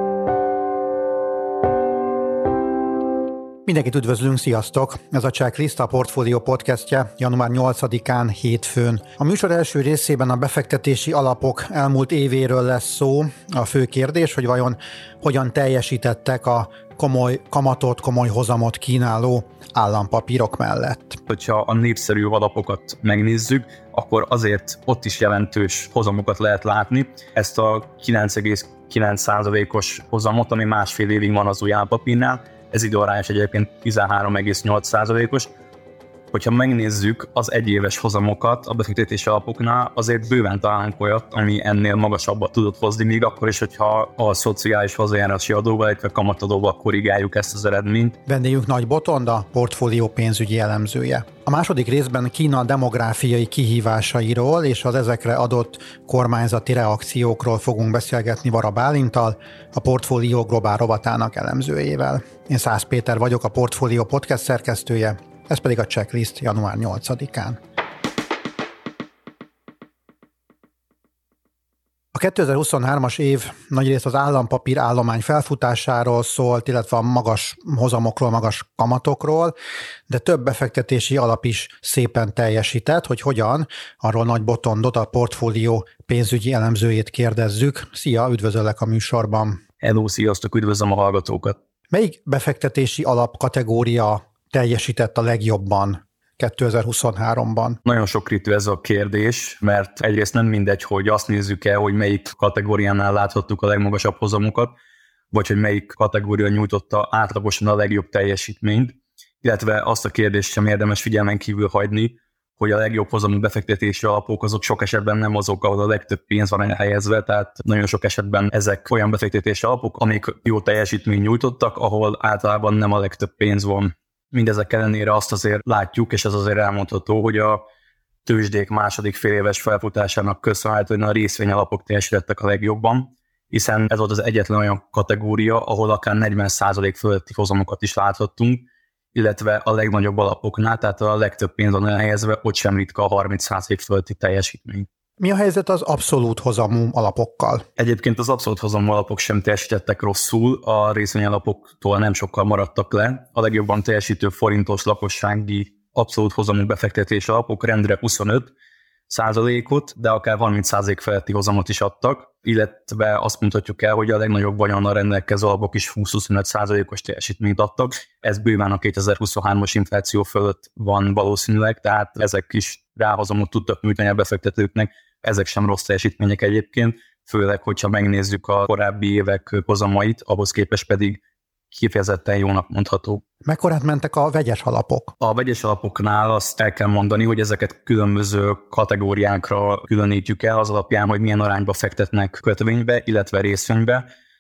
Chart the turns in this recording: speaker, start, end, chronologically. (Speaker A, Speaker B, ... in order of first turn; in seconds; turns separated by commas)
Speaker A: 3.7-21.2, Speaker B: 21.3-35.5, Speaker B: 36.3-48.2, Speaker A: 48.3-67.6, Speaker A: 72.1-79.5, Speaker A: 80.1-89.6, Speaker B: 89.8-91.6, Speaker A: 91.9-97.8, Speaker B: 97.8-104.8, Speaker B: 105.3-127.6, Speaker B: 128.2-144.9, Speaker A: 145.2-147.7, Speaker B: 147.8-158.5, Speaker B: 159.1-181.2, Speaker B: 181.7-183.2, Speaker A: 183.4-185.1, Speaker B: 185.2-194.1